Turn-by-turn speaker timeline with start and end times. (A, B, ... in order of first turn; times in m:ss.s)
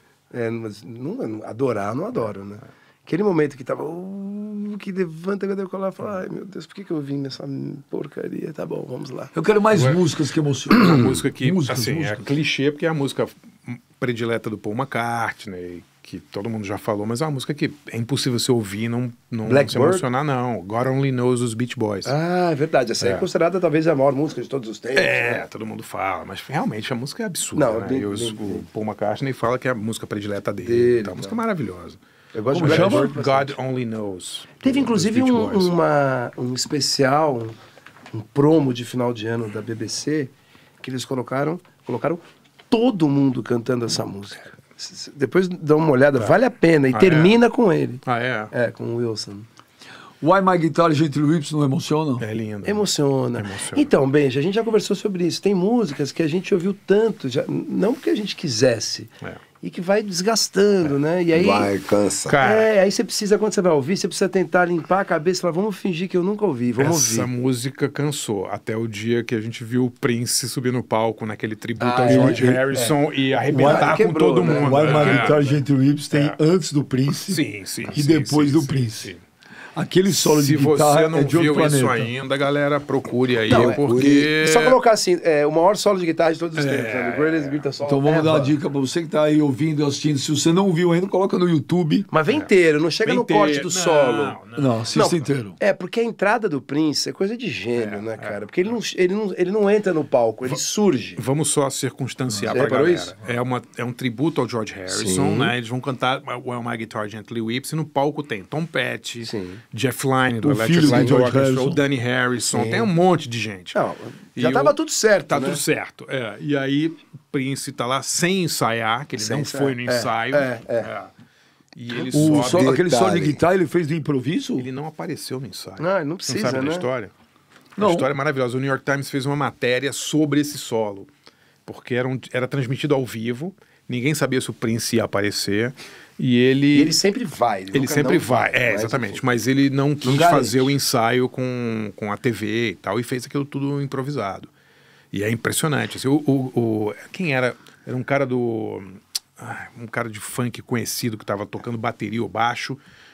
0:00.3-0:09.3 A
0:09.3-0:12.3 B
0:09.7-0:10.0 C
0:10.7-0:22.1 C
0:19.4-0:20.0 A
0:22.0-0:25.4 A
0:23.0-0:23.2 C
0:24.9-0:32.0 C
0:27.6-0:28.3 A
0:28.0-0:28.5 D
0:30.6-0:31.3 A
0:32.3-0:33.5 A
0:32.5-0:35.7 C
0:32.6-0:33.1 B
0:34.6-0:37.6 A
0:38.1-0:48.0 A
0:46.9-0:47.4 C
0:48.0-0:48.5 C
0:48.5-0:49.5 A
0:50.2-0:52.2 B
0:52.2-0:53.9 C
0:52.6-1:01.7 A
1:01.3-1:02.4 D
1:02.2-1:02.7 C
1:02.4-1:07.3 A
1:06.8-1:15.4 C
1:11.8-1:15.6 A
1:12.0-1:12.7 B
1:13.5-1:19.1 B
1:16.1-1:16.4 C
1:17.2-1:19.2 C
1:19.7-1:22.1 B
1:20.1-1:24.8 C
1:23.5-1:24.3 D
1:23.5-1:28.5 A
1:26.5-1:27.7 C
1:27.8-1:32.1 B
1:32.1-1:34.4 A
1:33.0-1:35.2 C
1:34.6-1:35.6 B
1:34.9-1:41.2 A
1:37.7-1:38.7 C
1:41.2-1:53.8 C
1:42.5-1:43.2 A
1:44.9-1:45.5 D
1:49.2-1:49.6 A
1:50.4-1:51.8 B
1:50.8-1:51.2 A
1:52.5-1:52.9 A
1:53.7-1:55.6 A
1:54.3-1:54.8 C
1:55.3-2:01.1 C
1:59.2-2:00.9 A
2:01.7-2:02.8 C
2:02.1-2:04.7 B
2:02.2-2:03.4 D
2:04.6-2:07.1 C
2:05.8-2:06.8 A
2:07.8-2:11.1 C
2:07.8-2:08.1 B
2:11.6-2:17.0 C
2:16.7-2:19.2 A
2:17.7-2:24.5 C
2:20.0-2:20.7 A
2:25.1-2:32.8 C